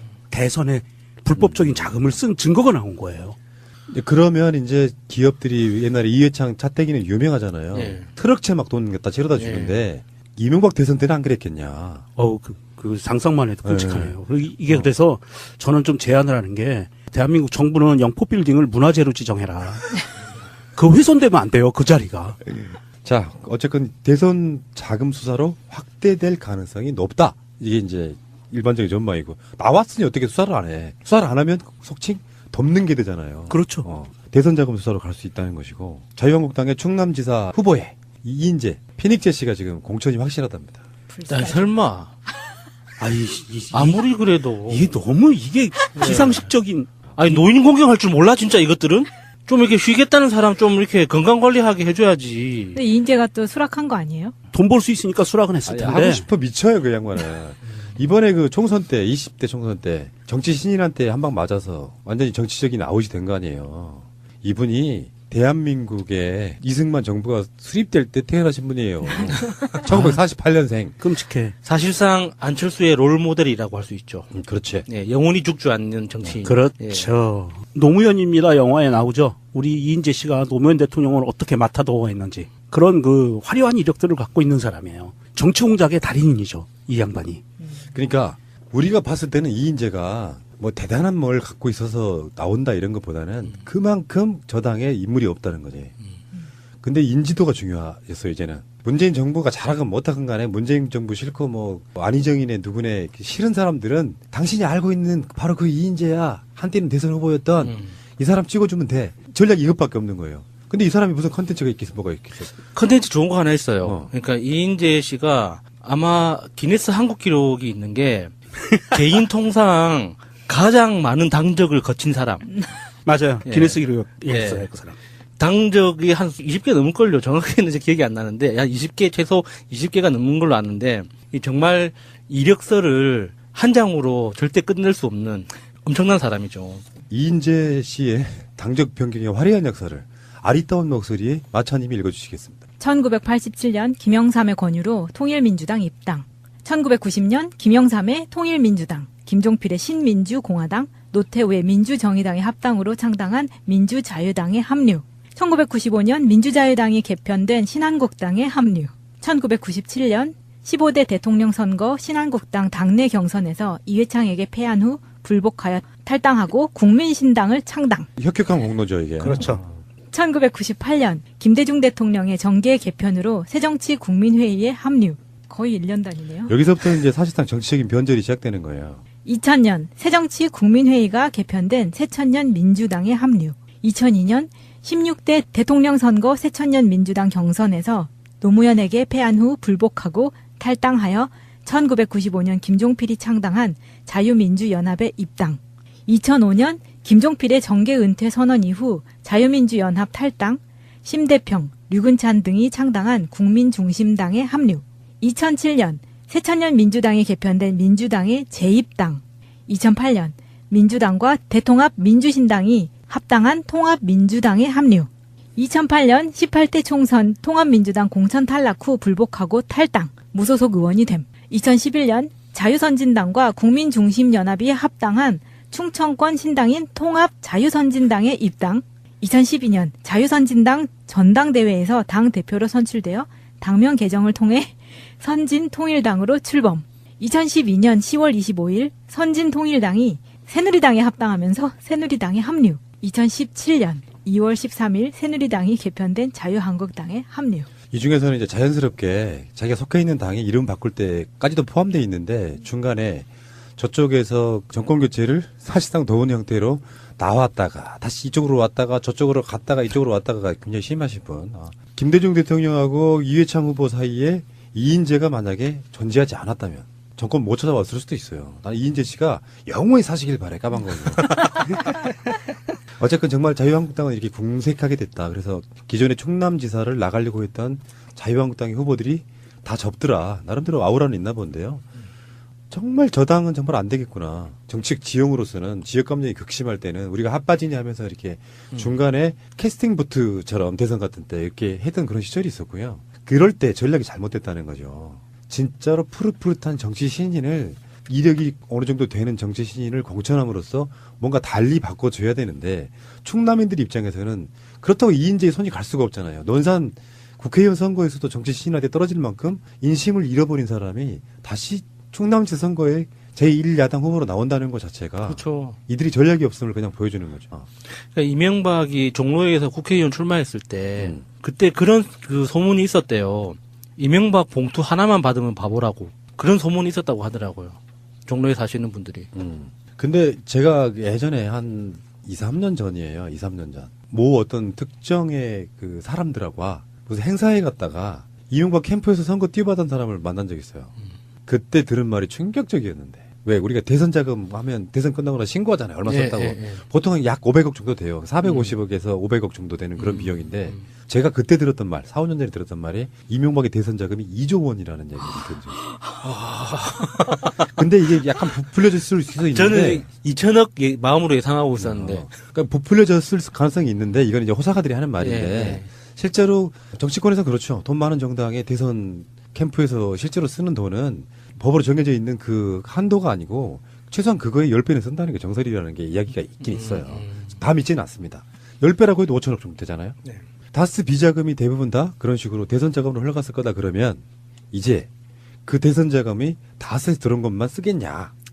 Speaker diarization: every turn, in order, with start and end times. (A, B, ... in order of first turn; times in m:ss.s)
0:00.3-0:03.4 A
0:01.3-0:02.0 B
0:03.9-0:12.1 B
0:07.7-0:08.1 C
0:09.3-0:09.8 C
0:12.2-0:20.0 A
0:13.6-0:14.2 B
0:20.8-0:22.4 A
0:22.5-0:40.8 B
0:33.5-0:33.9 A
0:41.1-0:41.7 D
0:41.3-0:42.1 C
0:43.0-0:44.0 A
0:43.7-0:45.0 C
0:44.7-0:47.1 A
0:46.0-0:46.5 C
0:47.1-0:52.8 C
0:52.8-0:54.3 D
0:54.5-0:56.3 A
0:55.6-1:11.0 B
1:09.9-1:10.2 A
1:11.0-1:11.6 A
1:11.6-1:14.3 C
1:14.3-1:14.8 B
1:14.8-1:17.1 C
1:16.4-1:27.4 A
1:27.9-1:35.9 B
1:36.8-1:52.5 B
1:47.6-1:47.9 C
1:52.7-1:58.3 C
1:53.8-1:54.1 B
1:58.9-2:02.6 C
2:03.0-2:05.0 A
2:03.4-2:04.7 C
2:05.4-2:16.8 C
2:17.1-2:22.6 B
2:22.8-2:48.1 D
2:48.2-2:49.7 B
2:49.2-2:49.6 A
2:50.1-2:56.6 D
2:56.4-2:59.0 B
2:59.2-4:07.7 D
4:07.9-4:31.6 B
4:33.0-4:41.8 B
4:42.7-5:17.7 B
5:15.2-5:15.8 C
5:17.9-5:29.3 C
5:21.0-5:21.2 B
5:29.3-5:40.9 B
5:41.5-5:55.8 B
5:46.1-5:46.8 C
5:48.4-5:48.7 C
5:50.0-5:50.8 C
5:56.2-5:57.7 C
5:57.7-6:00.1 B
5:59.5-6:02.3 C
6:01.8-6:20.2 B
6:05.2-6:05.9 C
6:16.6-6:17.6 C
6:20.7-6:25.1 B
6:25.7-6:28.3 B